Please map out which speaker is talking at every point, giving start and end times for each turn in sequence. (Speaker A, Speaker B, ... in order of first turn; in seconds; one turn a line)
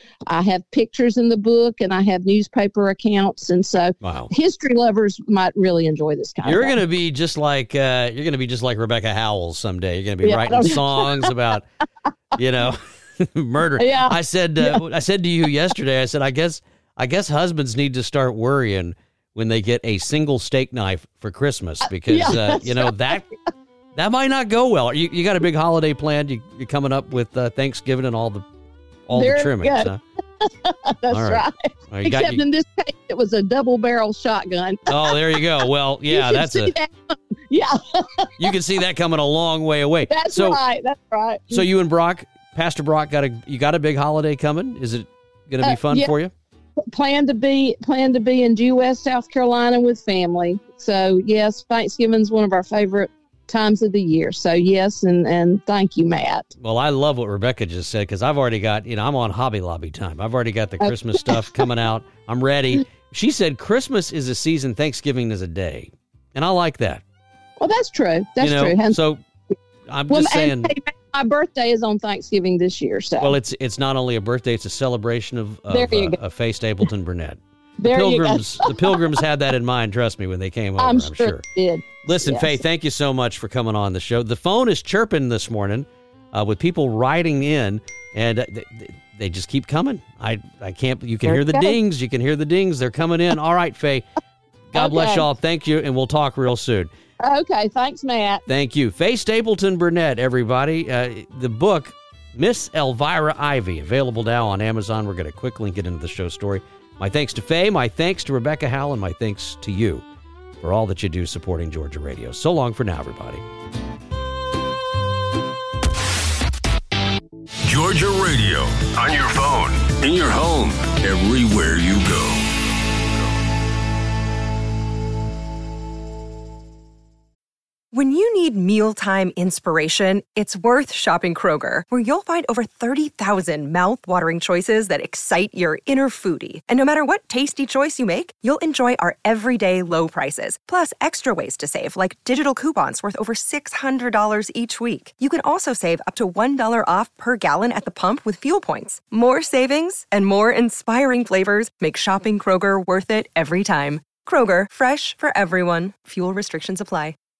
Speaker A: 0.3-6.8
Speaker B: 4.0-4.3
Speaker B: 6.4-11.7
Speaker A: 10.2-11.3
Speaker B: 12.3-23.2
Speaker A: 13.8-14.8
Speaker A: 22.1-23.2
Speaker B: 23.9-28.4
Speaker B: 29.1-30.0
Speaker A: 29.1-29.9
Speaker A: 30.4-35.5
Speaker B: 31.1-32.4
Speaker B: 34.9-36.7
Speaker A: 36.1-38.5
Speaker B: 38.4-40.6
Speaker A: 40.1-41.6
Speaker B: 41.5-46.3
Speaker A: 45.6-46.1
Speaker A: 46.9-56.5
Speaker B: 56.6-67.0
Speaker A: 67.6-69.0
Speaker B: 68.4-69.2
Speaker B: 69.9-70.7
Speaker A: 70.1-73.3
Speaker B: 73.2-81.4
Speaker A: 75.7-76.2
Speaker A: 77.8-79.1
Speaker A: 80.8-82.6
Speaker B: 82.0-94.0
Speaker A: 91.2-91.8
Speaker B: 94.7-96.9
Speaker A: 94.8-95.2
Speaker A: 97.2-98.4
Speaker B: 98.5-110.0
Speaker B: 110.6-113.4
Speaker C: 117.6-122.5
Speaker D: 127.9-157.2